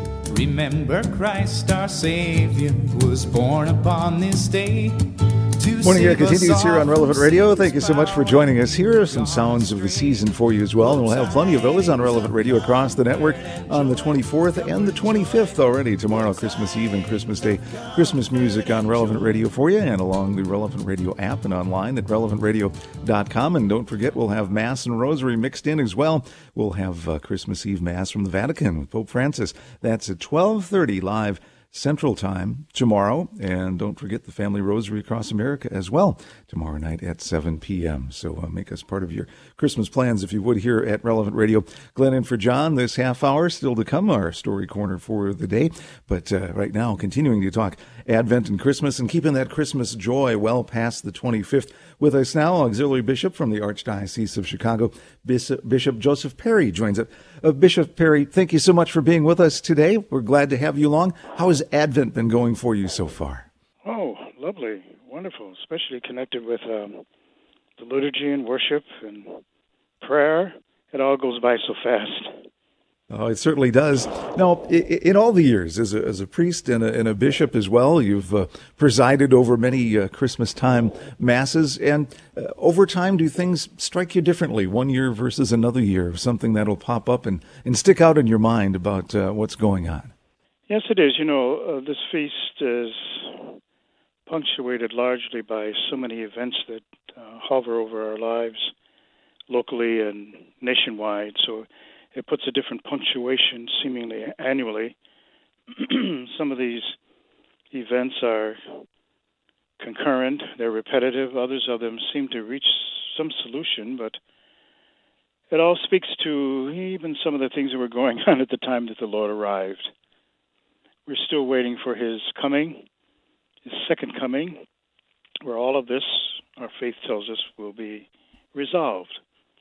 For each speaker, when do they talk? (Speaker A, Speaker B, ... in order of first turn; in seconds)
Speaker A: 0.3-12.2, 13.6-13.9
Speaker B: 5.8-63.5, 73.1-90.1
Speaker C: 63.8-67.0, 67.8-69.4, 70.0-72.3, 90.7-93.6, 94.3-98.7, 99.5-105.0, 105.7-107.0, 107.7-108.8, 109.8-114.2, 115.5-119.9, 121.1-122.8, 123.6-124.6, 125.4-129.2